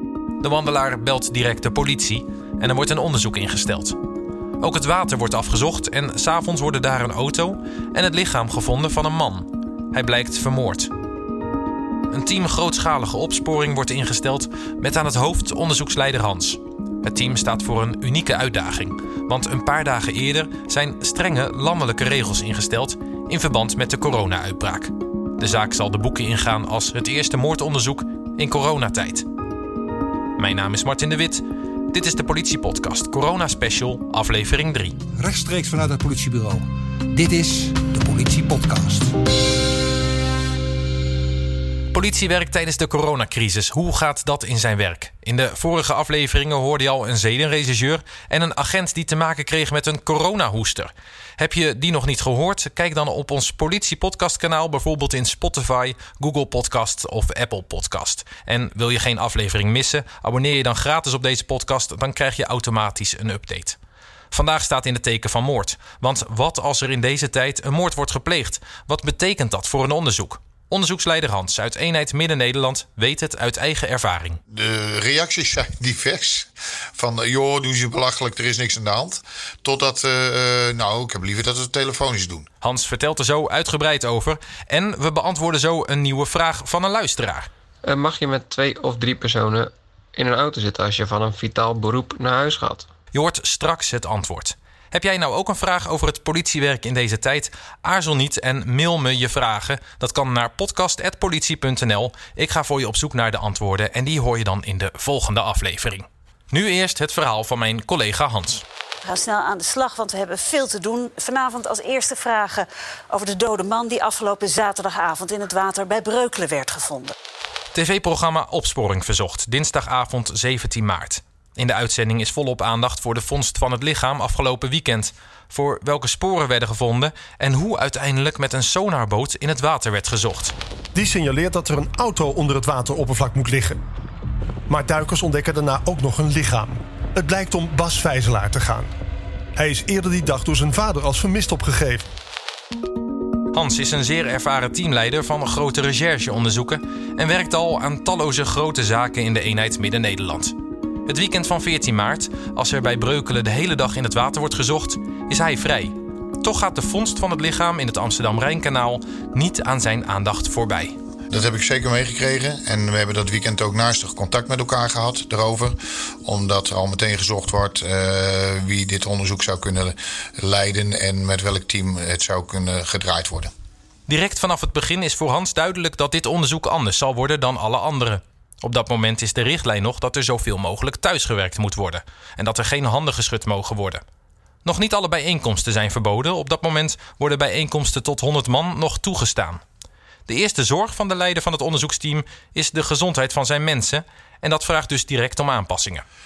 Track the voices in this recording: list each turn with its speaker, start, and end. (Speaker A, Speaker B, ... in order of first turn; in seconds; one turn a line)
Speaker A: 0.4-4.0
Speaker A: 4.6-10.9
Speaker A: 12.1-29.2
Speaker A: 30.4-35.0
Speaker B: 35.2-39.1
Speaker A: 41.9-63.8
Speaker A: 64.3-74.4
Speaker C: 74.5-82.5
Speaker A: 82.6-87.5
Speaker D: 87.8-92.9
Speaker A: 93.1-108.6
Speaker E: 109.0-117.1
Speaker A: 117.7-130.5
Speaker F: 130.9-133.8
Speaker F: 134.7-138.9
Speaker F: 139.5-142.1
Speaker A: 143.5-150.5
Speaker A: 151.1-160.9
Speaker C: 161.3-173.5
Speaker A: 174.1-184.0
Speaker A: 184.6-189.6
Speaker A: 190.2-196.0